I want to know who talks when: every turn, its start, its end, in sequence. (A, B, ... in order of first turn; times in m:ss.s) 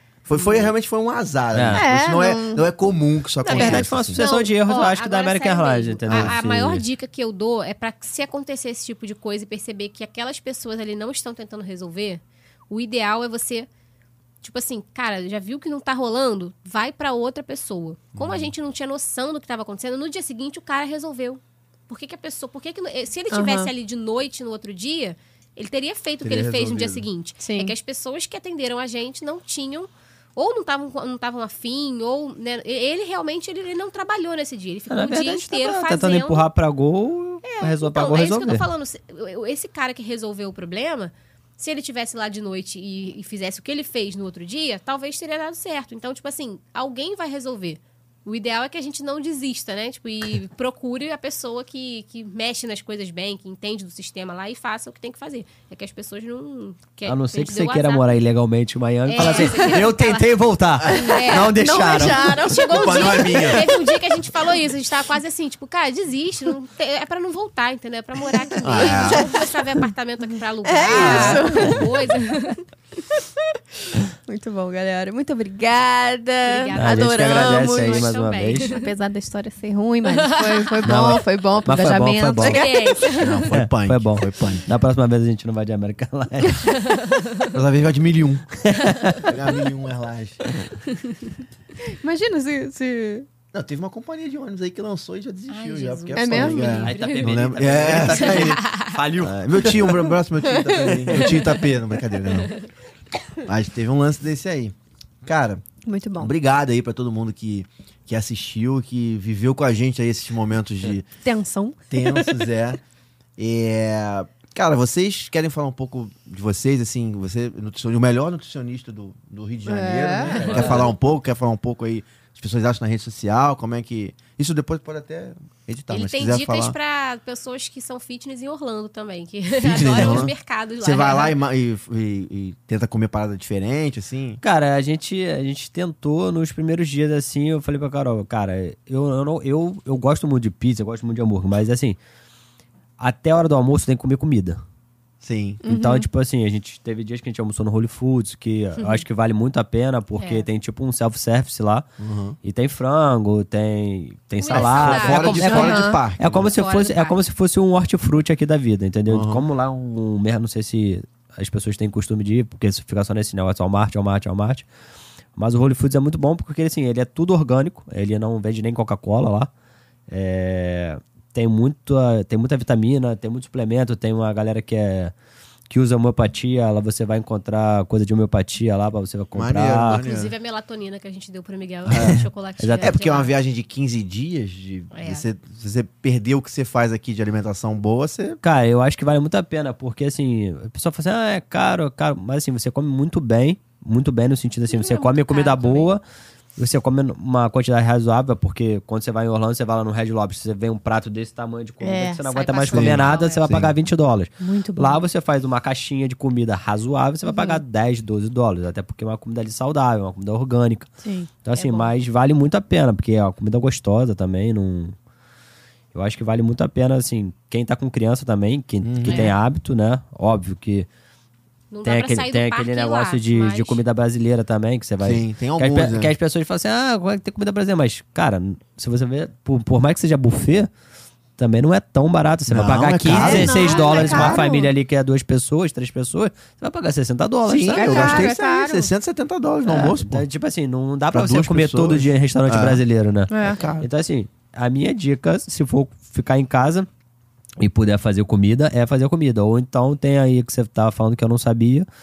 0:00.2-0:04.2 A
0:00.3-0:00.7 B
0:01.5-0:01.9 C
0:01.7-0:02.7 D
0:03.4-0:06.8 C
0:03.4-0:13.7 B
0:06.1-0:06.4 A
0:14.4-0:36.5 B
0:18.1-0:18.5 A
0:23.3-0:23.7 D
0:26.2-0:27.0 A
0:27.4-0:27.7 D
0:34.9-0:38.7 C
0:37.4-0:58.2 B
0:57.0-1:02.4 C
0:59.0-1:00.3 B
0:59.2-0:59.9 D
1:00.9-1:03.9 D
1:00.9-1:12.6 B
1:02.5-1:03.8 A
1:08.6-1:09.3 A
1:08.7-1:09.5 D
1:10.6-1:11.9 D
1:10.9-1:11.7 C
1:10.9-1:11.3 A
1:14.3-1:23.2 D
1:16.4-1:18.9 B
1:16.8-1:18.7 C
1:20.1-1:20.8 B
1:20.8-1:22.7 C
1:22.4-1:23.4 B
1:23.2-1:24.7 A
1:23.5-1:26.8 C
1:26.7-1:27.5 B
1:27.5-1:28.5 A
1:28.6-1:29.2 C
1:29.2-1:30.4 A
1:32.0-1:33.3 D
1:33.5-1:38.6 A
1:35.5-1:37.2 B
1:36.1-1:36.9 D
1:36.9-1:40.0 C
1:37.9-1:39.0 B
1:39.2-1:42.5 A
1:40.4-1:41.6 D
1:42.3-1:42.6 B
1:43.4-1:45.6 A
1:45.8-1:46.3 D
1:46.2-1:51.1 A
1:51.2-1:52.3 D
1:51.9-1:52.8 A
1:53.4-2:06.8 A
1:59.6-2:00.7 D
2:00.4-2:00.8 B
2:05.9-2:11.4 B
2:09.6-2:14.4 A
2:14.4-2:22.0 C
2:23.0-2:24.6 C
2:25.2-2:25.6 A
2:25.6-2:26.1 D
2:25.6-2:31.9 C
2:28.8-2:29.0 B
2:30.2-2:30.4 B
2:32.0-2:32.4 A
2:32.4-2:44.6 C
2:34.4-2:35.8 B
2:34.5-2:36.5 A
2:35.5-2:36.0 D
2:36.5-2:37.2 B
2:39.1-2:39.4 A
2:45.4-2:49.5 C
2:50.1-2:55.1 C
2:55.7-3:00.0 C
2:59.3-3:00.3 A
2:59.9-3:03.3 B
3:01.9-3:02.2 A
3:01.9-3:02.9 C
3:02.8-3:08.4 A
3:04.9-3:05.2 B
3:08.4-3:16.0 C
3:14.7-3:15.9 B
3:16.6-3:30.9 C
3:21.8-3:22.2 D
3:22.3-3:23.5 B
3:22.7-3:23.7 A
3:24.4-3:25.0 D
3:27.2-3:27.6 D
3:31.0-3:31.9 D
3:31.4-3:34.9 C
3:35.9-3:40.9 C
3:38.8-3:39.3 A
3:39.1-3:39.3 B
3:41.7-3:43.8 B
3:41.8-3:50.7 C
3:45.0-3:46.1 A
3:51.4-3:58.3 C
3:52.5-3:54.5 A
3:53.1-3:54.7 D
3:53.6-3:53.9 B
3:57.4-4:00.2 A
3:57.7-3:58.9 D
3:59.6-4:06.9 C
4:01.1-4:02.8 A
4:03.3-4:03.6 D
4:03.4-4:03.9 A
4:07.6-4:11.9 C